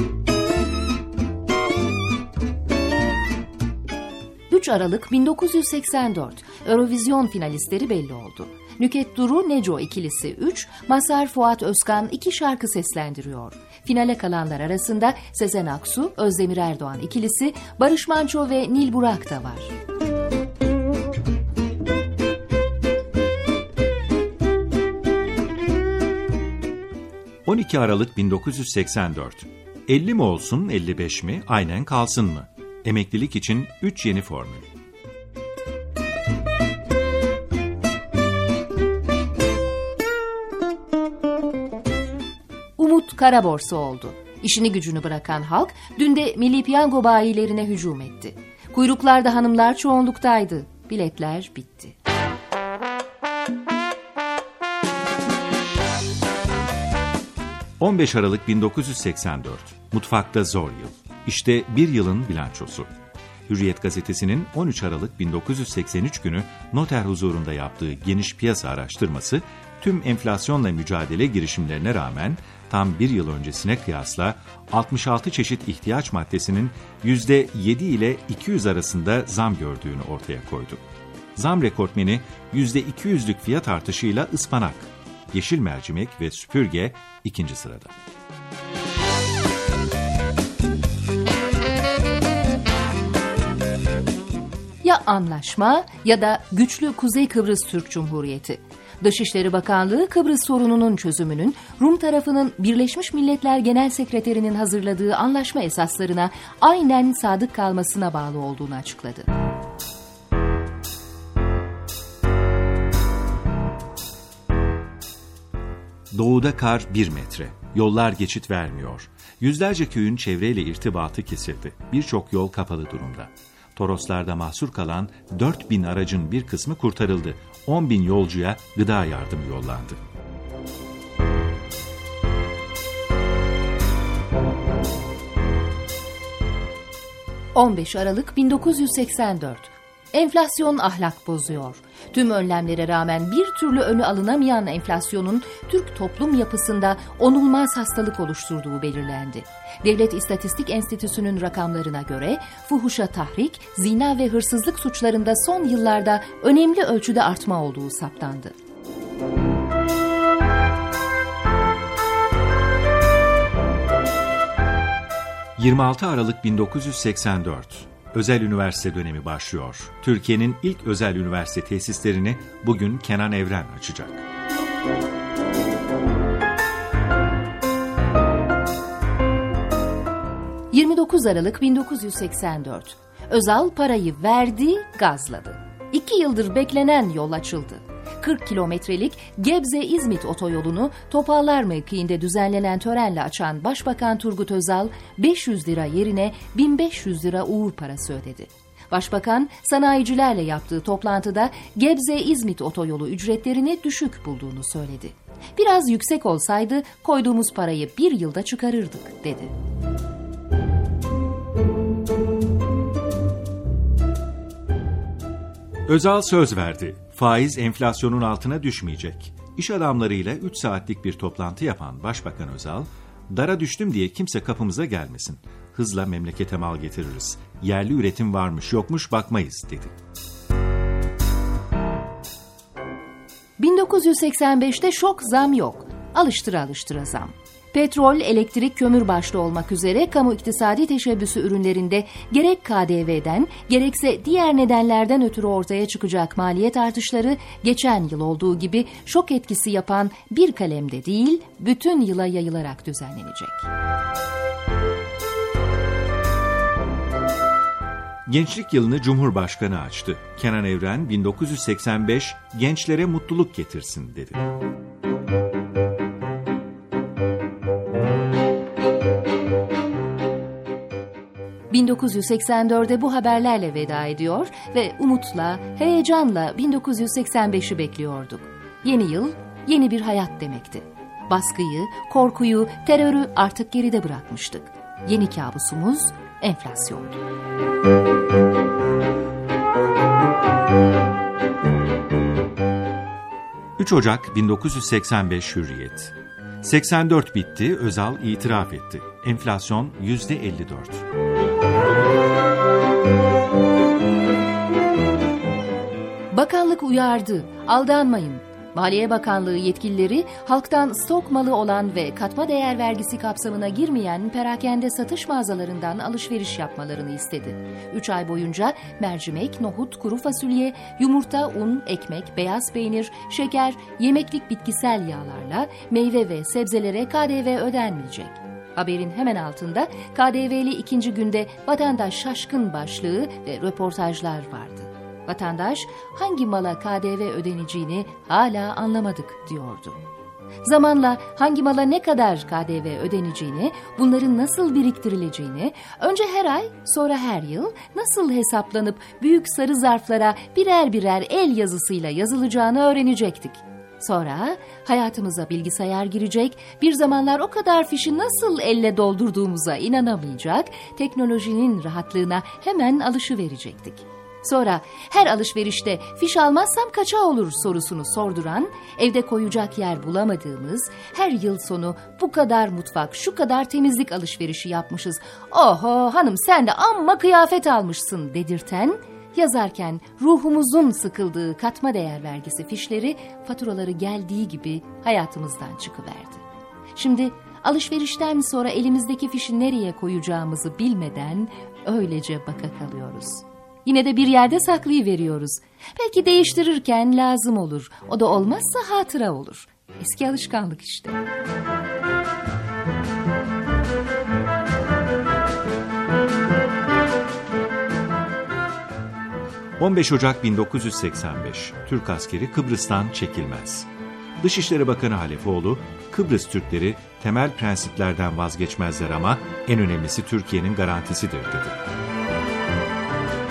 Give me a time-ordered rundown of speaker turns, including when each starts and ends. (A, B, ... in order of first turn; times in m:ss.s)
0:04.5-0:19.7 A
0:27.4-0:34.7 B
0:42.8-0:52.0 A
0:57.8-1:02.9 B
1:03.5-1:20.8 B
1:21.3-1:27.9 B
1:34.8-1:49.3 A
1:56.1-2:10.0 B
2:17.5-2:38.5 A
2:45.6-2:54.2 B
3:00.7-3:29.5 A
3:35.9-3:49.9 B
3:53.6-4:13.7 A
4:18.2-4:24.4 B
4:31.7-4:47.2 A
4:53.8-5:01.0 B
5:06.3-5:40.0 A
5:40.6-6:26.4 A
6:27.0-6:41.2 A
6:49.8-6:53.9 B
6:54.4-7:01.8 B